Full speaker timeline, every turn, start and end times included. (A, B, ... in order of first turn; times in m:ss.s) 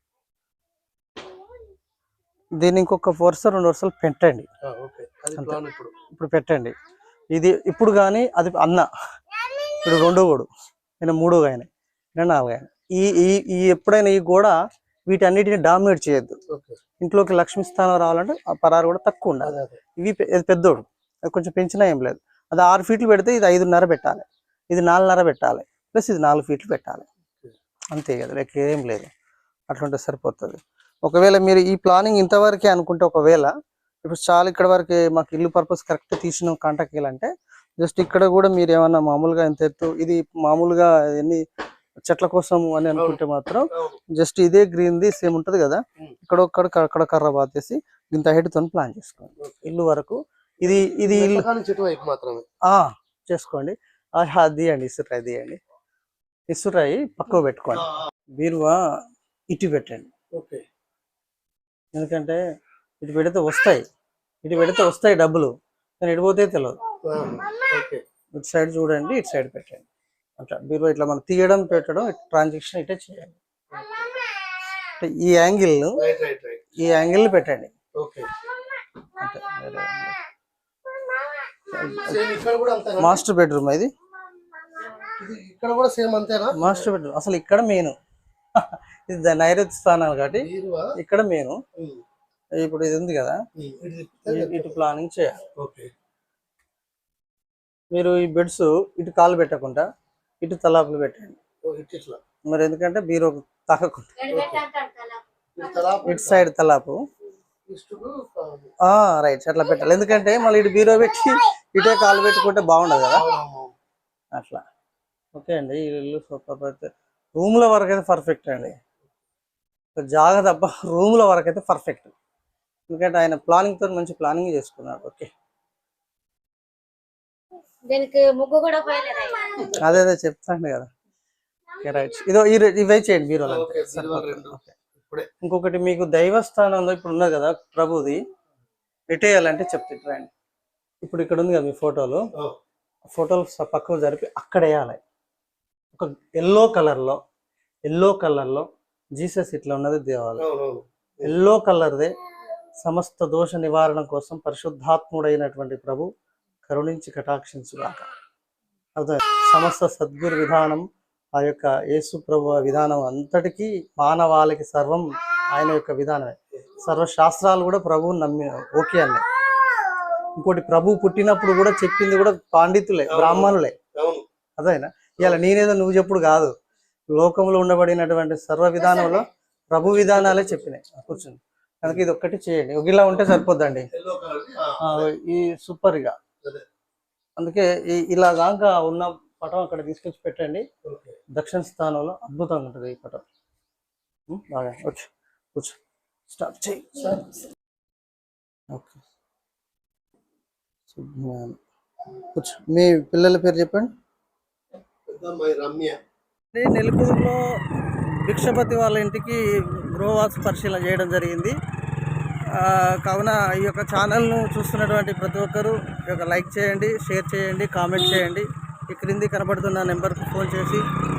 0:02.6-0:04.5 A
0:04.6-0:05.9 B
0:05.4-0:06.7 A
0:07.3-0:08.9 A
0:09.8-0:10.5 A
0:11.0-0:14.5 A
0:15.1-0:16.4 A
0:16.5-0:16.8 B
0:17.0-0:27.1 A
0:19.4-0:19.8 B
0:27.9-0:29.1 A
0:29.7-0:33.5 A
0:34.0-0:41.4 A
0:42.1-0:51.5 A
0:43.7-0:44.0 B
0:49.4-0:49.7 B
0:50.6-0:52.4 B
0:52.7-0:55.6 A
0:56.5-0:58.8 A
0:59.5-1:00.1 A
1:00.3-1:00.6 B
1:01.9-1:02.4 A
1:03.0-1:03.8 A
1:04.4-1:06.8 A
1:07.0-1:08.0 B
1:08.3-1:09.9 A
1:10.4-1:13.4 A
1:13.7-1:14.2 B
1:15.0-1:16.0 A
1:16.0-1:16.6 B
1:16.8-1:17.7 A
1:18.0-1:18.3 B
1:19.2-1:20.2 A
1:21.7-1:22.2 A
1:22.0-1:23.2 B
1:23.0-1:23.9 A
1:25.2-1:26.9 B
1:26.5-1:28.0 A
1:28.6-1:31.6 A
1:30.4-1:30.9 B
1:31.8-1:32.0 B
1:32.6-1:33.4 A
1:33.6-1:34.8 B
1:34.3-1:35.4 A
1:35.6-1:35.9 B
1:37.9-1:39.8 A
1:40.4-1:41.4 A
1:41.6-1:42.2 B
1:42.5-1:44.2 A
1:44.2-1:45.2 C
1:44.3-1:44.6 B
1:45.6-1:46.5 B
1:46.0-1:47.0 A
1:47.7-1:48.7 B
1:48.8-1:53.2 A
1:53.1-1:53.7 B
1:54.3-1:54.6 A
1:55.3-1:58.8 A
2:00.0-2:02.1 A
2:02.9-2:05.3 A
2:07.9-2:09.7 C
2:09.7-2:10.9 A
2:11.8-2:14.7 A
2:13.4-2:15.3 B
2:15.4-2:18.2 A
2:19.1-2:20.3 A
2:21.0-2:22.2 A
2:23.1-2:25.0 A
2:25.9-2:27.2 A
2:27.9-2:30.5 A
2:30.4-2:31.3 B
2:31.2-2:32.1 A
2:32.8-2:36.1 A
2:36.7-2:38.1 A
2:39.0-2:49.2 A
2:50.4-2:53.8 A
2:53.1-2:54.2 B
2:54.6-2:56.5 A
2:57.1-3:03.9 A
2:59.9-3:00.6 B
3:03.9-3:05.1 B
3:04.8-3:06.2 A
3:07.4-3:10.6 A
3:10.8-3:11.2 B
3:11.3-3:13.2 A
3:14.3-3:15.8 A
3:16.3-3:17.2 A
3:18.7-3:19.0 A
3:20.9-3:21.6 A
3:22.3-3:23.9 A
3:25.1-3:26.0 B
3:26.5-3:27.4 A
3:28.2-3:31.6 A
3:32.5-3:40.8 A